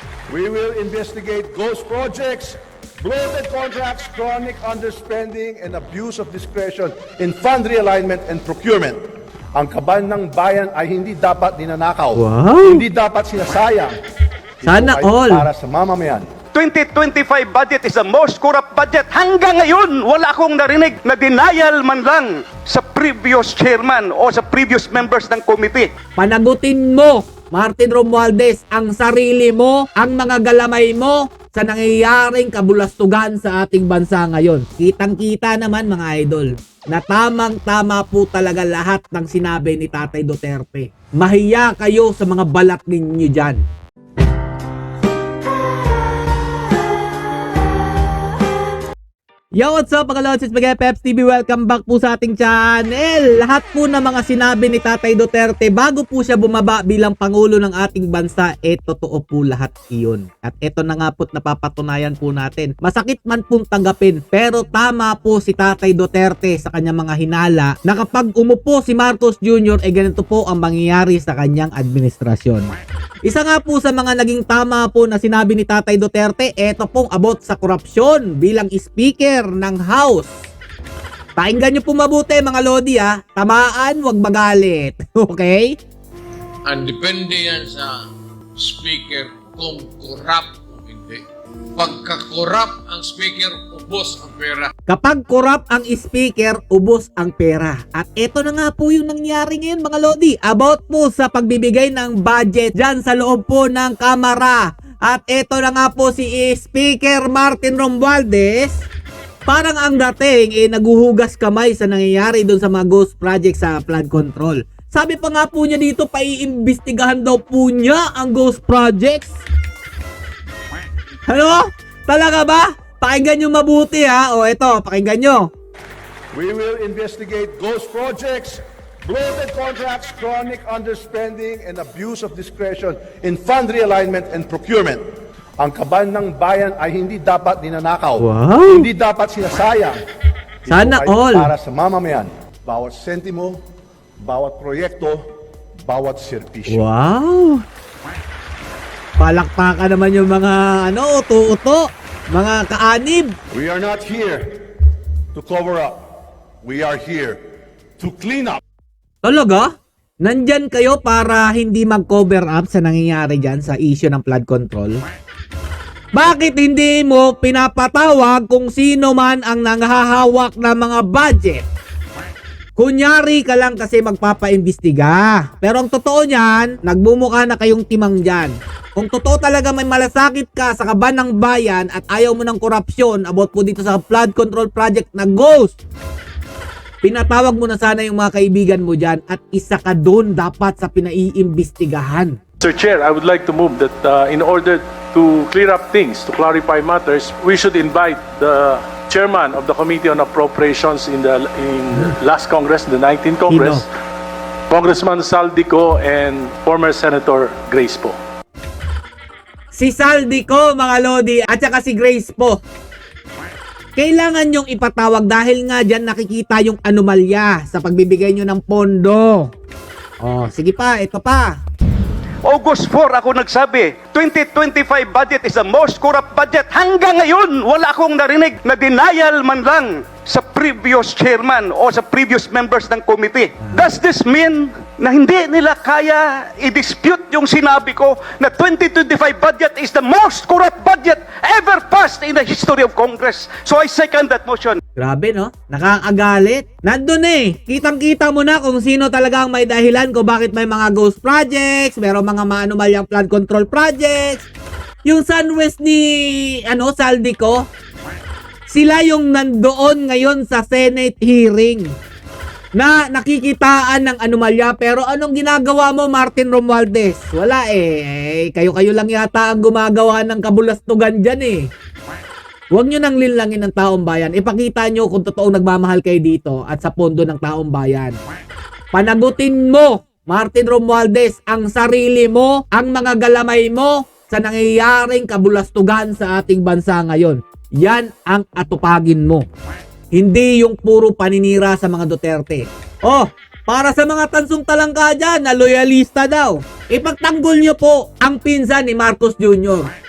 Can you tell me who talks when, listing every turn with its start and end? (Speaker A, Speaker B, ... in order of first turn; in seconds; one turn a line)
Speaker A: 0.3-9.0
Speaker A: 9.6-14.0
Speaker B: 12.2-12.8
Speaker A: 14.6-16.3
Speaker B: 14.7-15.5
Speaker C: 16.5-25.9
Speaker B: 26.2-43.6
Speaker B: 49.5-72.7
Speaker B: 73.2-80.3
Speaker B: 81.4-85.8
Speaker D: 86.7-91.2
Speaker D: 91.8-94.7
Speaker B: 94.9-108.9
Speaker B: 109.5-119.3
Speaker B: 121.3-125.5
Speaker A: 126.3-135.1
Speaker A: 135.6-140.0
Speaker B: 138.2-138.9
Speaker A: 140.7-143.6
Speaker B: 140.7-141.5
Speaker A: 144.2-145.2
Speaker A: 145.9-146.8
Speaker B: 146.7-147.6
Speaker B: 149.2-153.4
Speaker A: 153.5-154.6
Speaker A: 155.3-156.1
Speaker A: 156.6-157.4
Speaker A: 158.0-158.6
Speaker B: 159.2-159.7
Speaker B: 160.2-165.0
Speaker B: 166.1-171.6
Speaker B: 172.8-185.8
Speaker B: 187.0-192.3
Speaker E: 192.6-203.9
Speaker B: 203.5-203.8
Speaker E: 204.7-208.2
Speaker B: 209.7-212.6
Speaker B: 214.0-219.5
Speaker B: 220.2-221.6
Speaker C: 222.4-244.8
Speaker B: 245.0-254.5
Speaker B: 255.1-257.6
Speaker B: 258.7-261.9
Speaker B: 262.8-271.7
Speaker B: 272.7-278.2
Speaker B: 278.9-289.5
Speaker B: 290.1-299.9